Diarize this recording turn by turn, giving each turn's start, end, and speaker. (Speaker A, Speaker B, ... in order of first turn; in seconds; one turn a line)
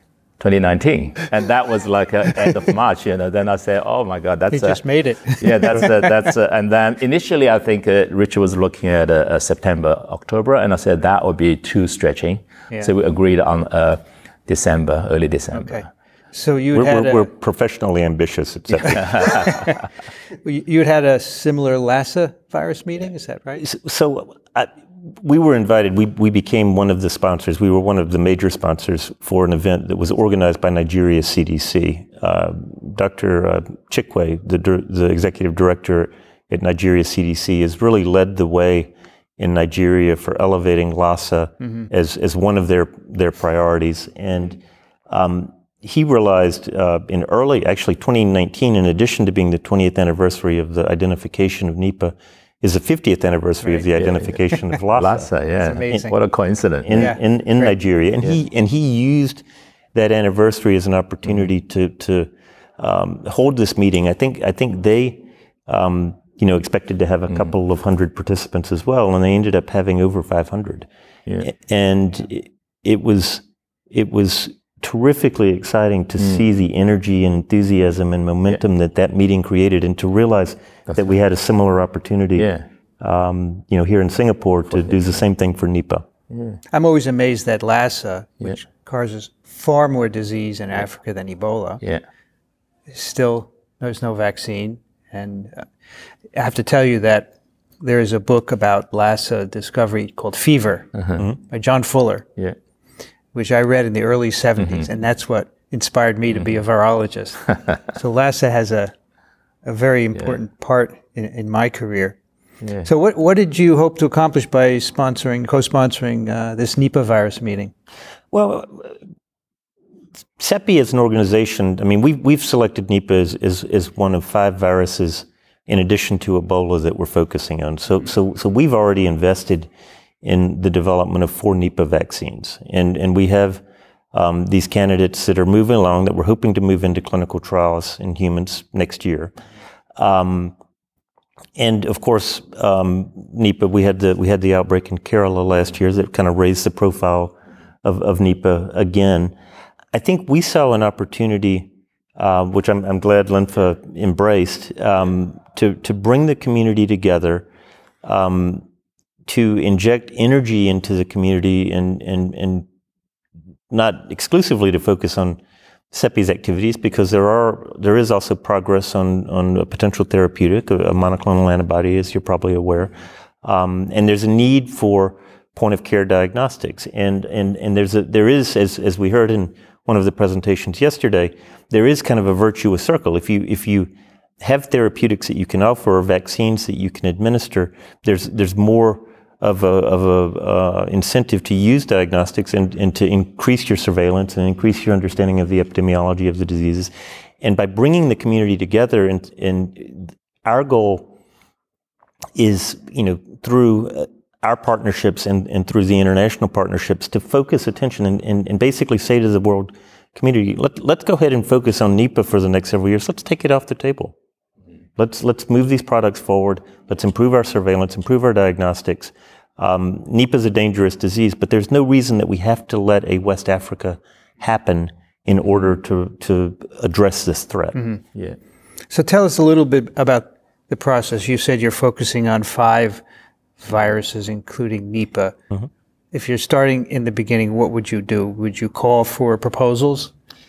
Speaker A: 0.4-15.8
Speaker B: 4.5-5.9
Speaker B: 15.5-17.3
Speaker C: 16.8-19.6
Speaker B: 19.1-19.7
Speaker B: 20.4-23.6
Speaker C: 23.6-55.3
Speaker A: 54.0-54.3
Speaker A: 54.9-57.1
Speaker B: 55.6-56.2
Speaker C: 56.8-59.4
Speaker B: 56.9-57.2
Speaker C: 59.9-70.9
Speaker C: 71.4-86.1
Speaker A: 82.4-82.6
Speaker A: 86.3-86.6
Speaker B: 86.7-91.8
Speaker B: 92.9-95.7
Speaker B: 96.3-102.3
Speaker B: 103.3-108.9
Speaker B: 109.6-112.2
Speaker B: 112.8-117.7
Speaker C: 118.3-118.9
Speaker C: 120.4-129.7
Speaker C: 130.2-133.6
Speaker C: 134.1-139.3
Speaker C: 140.0-140.6
Speaker C: 141.6-149.3
Speaker C: 149.9-157.4
Speaker C: 158.0-158.6
Speaker C: 159.2-162.7
Speaker C: 163.7-165.4
Speaker C: 165.9-183.9
Speaker C: 184.4-196.9
Speaker C: 197.4-201.1
Speaker C: 202.3-214.1
Speaker C: 215.0-227.8
Speaker B: 228.9-233.0
Speaker B: 233.6-235.4
Speaker B: 236.1-240.1